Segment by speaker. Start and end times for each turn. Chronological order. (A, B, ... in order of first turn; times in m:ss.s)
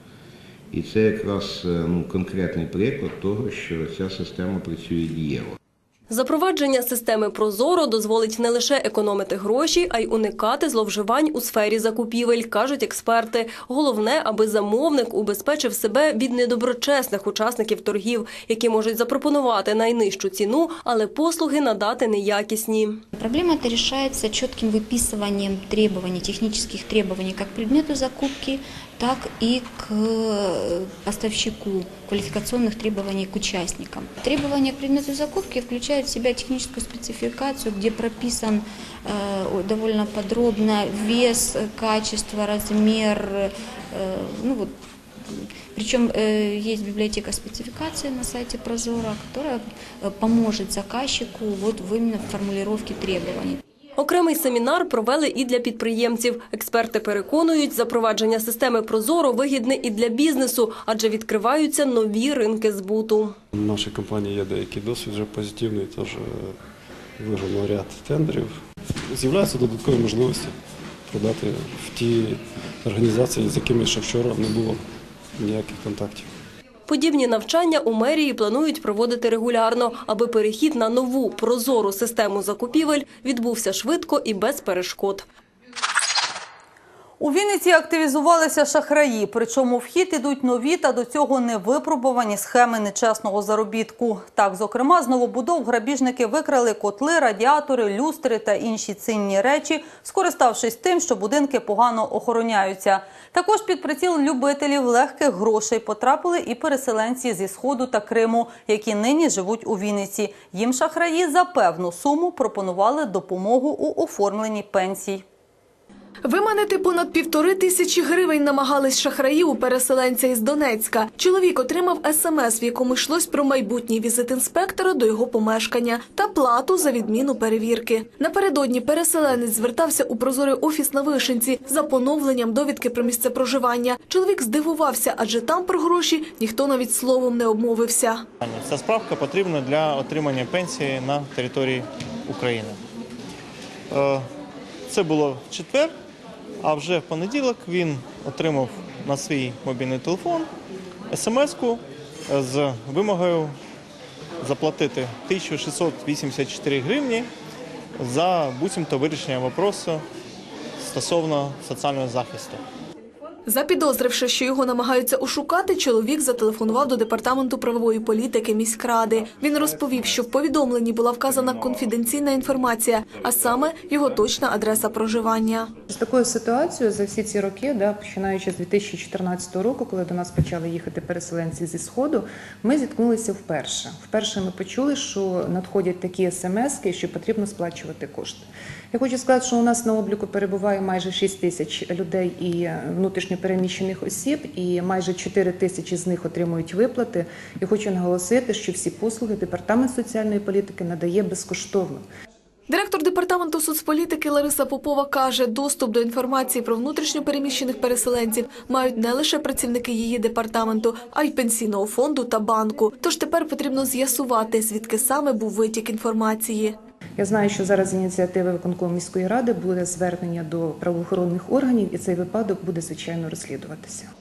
0:00.7-0:05.6 A
0:06.1-0:23.0 B
0:23.2-0:44.7 C
0:45.2-0:53.6 C
0:54.0-1:03.4 B
1:03.5-1:06.6 D
1:07.2-1:10.6 D
1:11.1-1:14.8 D
1:15.4-1:16.3 D
1:16.9-1:25.2 B
1:27.2-1:55.2 E
1:56.2-2:18.2 F
2:18.4-2:22.8 G
2:23.9-2:24.2 G
2:24.9-2:25.9 G
2:26.6-2:30.5 G
2:31.1-2:33.6 G
2:34.4-2:37.3 G
2:38.0-2:40.0 G
2:40.8-2:42.6 G
2:43.4-2:55.7 F
2:55.9-3:22.0 H
3:22.7-3:36.8 F
3:37.2-3:44.1 H